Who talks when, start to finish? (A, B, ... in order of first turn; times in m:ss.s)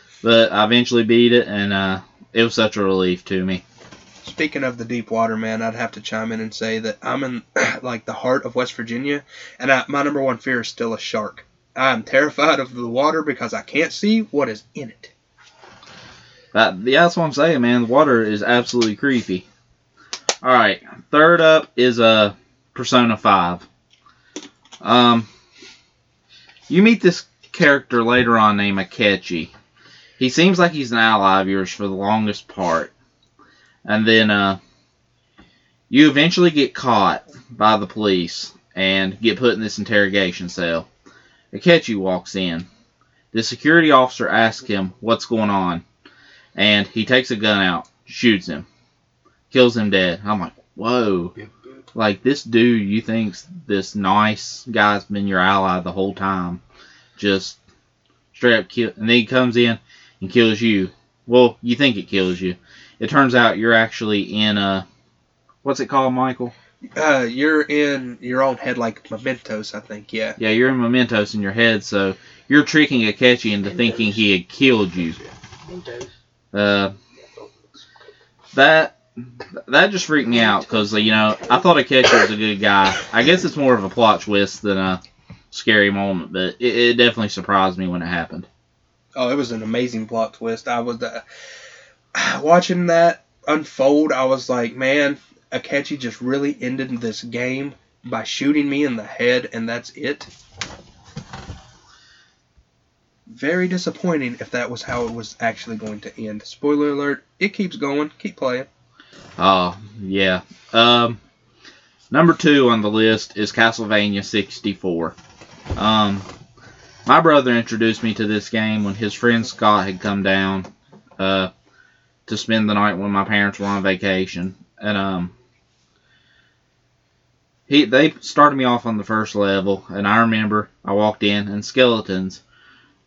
0:00.2-0:03.6 A
0:04.2-0:15.1 B
0:16.5-0:19.4 A
0:20.4-0:23.6 A
0:24.8-0:25.3 A
0:26.7-0:29.5 A
0:30.2-0:32.9 A
0:33.8-0:34.6 A
0:35.9-0:40.9 A
0:41.5-0:42.7 A
0:43.3-0:45.8 A
0:46.5-0:48.6 A
0:49.5-0:51.3 A
0:51.9-0:56.6 A
0:57.2-0:57.6 A
0:58.3-1:04.8 A
1:05.6-1:06.5 A
1:06.9-1:10.4 B
1:10.4-1:15.2 A
1:16.5-1:16.9 A
1:18.5-1:19.0 A
1:19.6-1:25.0 A
1:25.5-1:28.5 A
1:29.2-1:31.2 B
1:32.1-1:40.3 B
1:43.3-1:48.7 B
1:49.4-1:51.2 A
1:52.1-1:55.1 A
1:55.8-1:56.3 A
1:57.0-2:01.5 A
2:02.3-2:05.3 A
2:07.7-2:12.4 A